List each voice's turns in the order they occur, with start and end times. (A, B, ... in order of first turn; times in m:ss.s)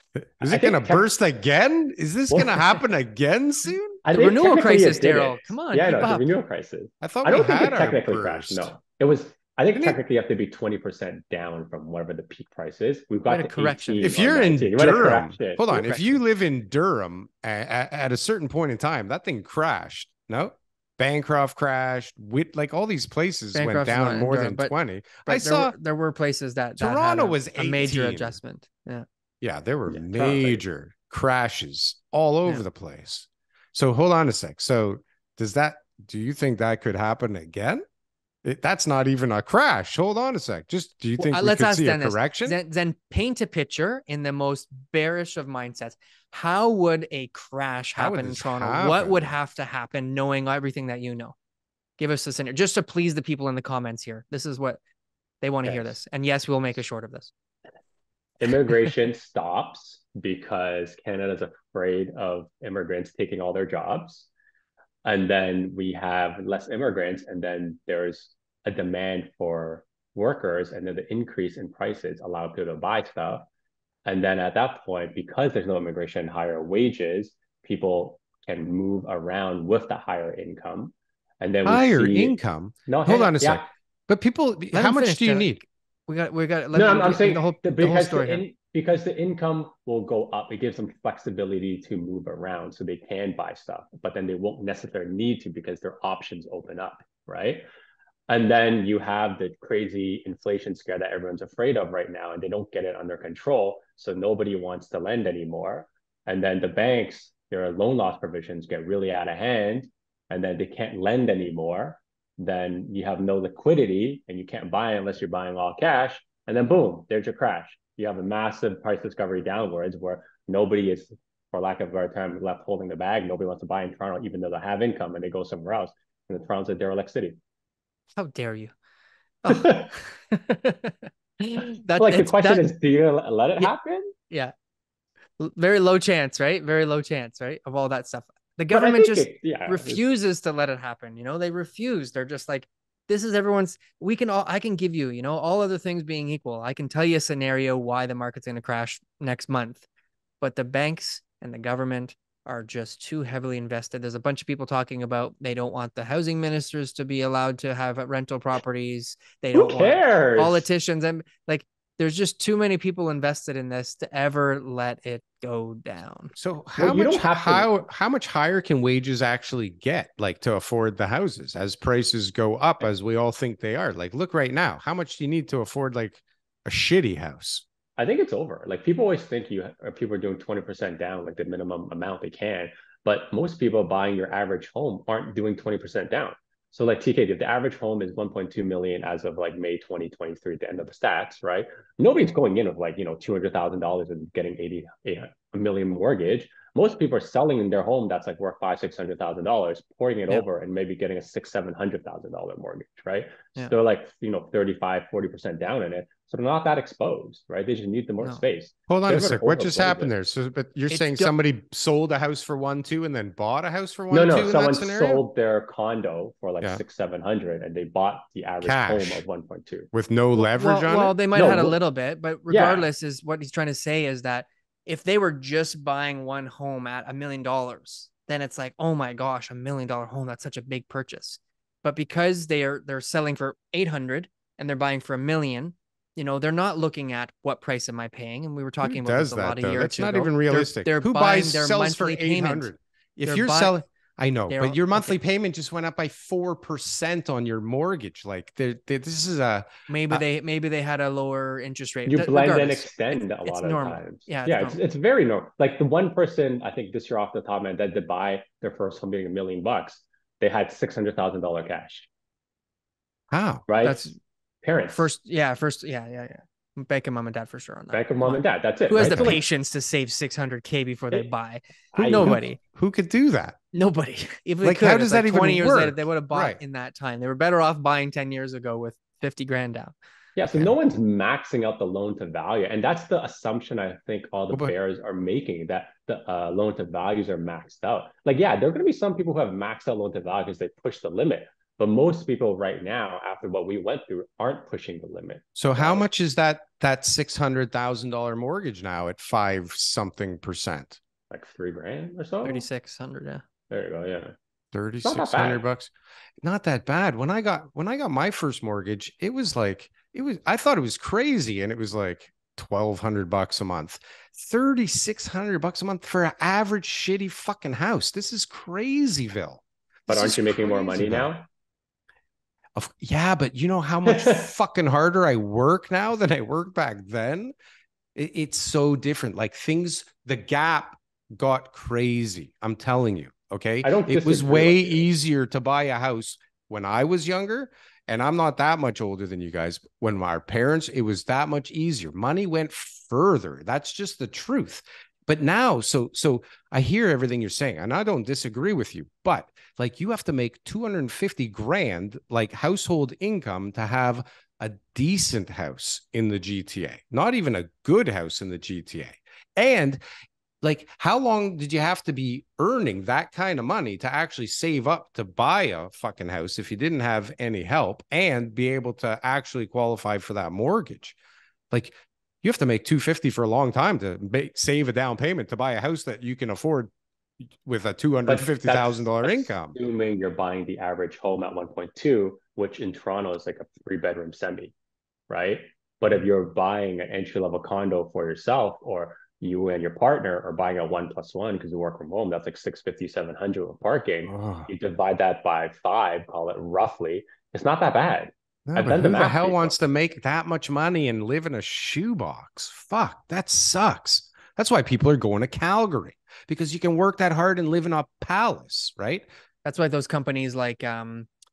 0:00.2-0:04.0 A
0:00.4-0:01.1 B
0:02.3-0:02.6 B
0:04.0-0:16.0 B
0:04.1-0:06.3 C
0:07.0-0:08.7 A
0:13.3-0:14.1 C
0:14.0-0:25.8 A
0:23.5-0:24.7 C
0:25.3-0:29.1 C
0:26.8-0:28.4 A
0:29.4-0:37.8 A
0:29.9-0:30.6 B
0:38.4-0:42.6 A
0:41.2-0:51.4 C
0:48.0-0:49.3 A
0:52.0-0:54.8 C
0:55.4-0:57.3 C
0:55.6-0:56.0 B
0:58.4-1:04.3 B
1:05.0-1:13.5 B
1:14.0-1:22.4 B
1:21.6-1:25.6 A
1:22.9-1:23.6 B
1:24.7-1:28.4 C
1:26.7-1:37.6 B
1:38.3-2:07.4 B
2:08.2-2:08.7 C
2:09.4-2:12.7 C
2:09.5-2:09.9 B
2:12.0-2:14.1 B
2:15.4-2:29.9 C
2:18.7-2:20.0 B
2:30.4-2:46.3 C
2:39.5-2:40.7 B
2:46.4-2:57.6 A
2:46.8-2:47.8 B
2:58.0-3:30.1 B
3:28.9-3:35.2 A
3:30.9-3:31.3 C
3:34.1-3:39.9 B
3:38.6-3:39.2 A
3:39.9-3:41.2 A
3:40.5-4:02.7 C
3:41.3-3:41.8 B
3:42.5-3:42.9 B
3:58.8-4:10.2 A
4:03.2-4:03.8 C
4:04.5-4:05.2 C
4:09.9-4:14.8 C
4:12.1-4:22.1 B
4:23.3-4:23.6 A
4:23.7-4:24.1 B
4:23.8-4:24.2 C
4:24.6-4:25.1 B
4:24.9-4:32.6 C
4:27.9-4:29.4 B
4:29.1-4:29.4 A
4:31.9-4:32.4 B
4:32.0-4:33.6 A
4:33.7-4:39.9 C
4:34.6-4:36.6 A
4:40.4-4:56.0 B
4:55.6-5:01.0 A
5:01.3-5:02.7 B
5:02.4-5:03.4 C
5:03.7-5:04.3 B
5:04.7-5:21.3 A
5:05.0-5:05.6 B
5:20.1-5:21.5 B
5:22.8-5:27.5 A
5:24.1-5:24.5 B
5:28.2-6:00.0 A
5:33.8-5:35.0 B
6:00.6-6:11.2 A
6:11.7-6:16.9 A
6:17.6-6:19.8 A
6:18.3-6:24.7 B
6:25.3-6:39.8 B
6:34.3-6:34.7 A
6:38.7-6:49.3 A
6:49.6-6:51.3 C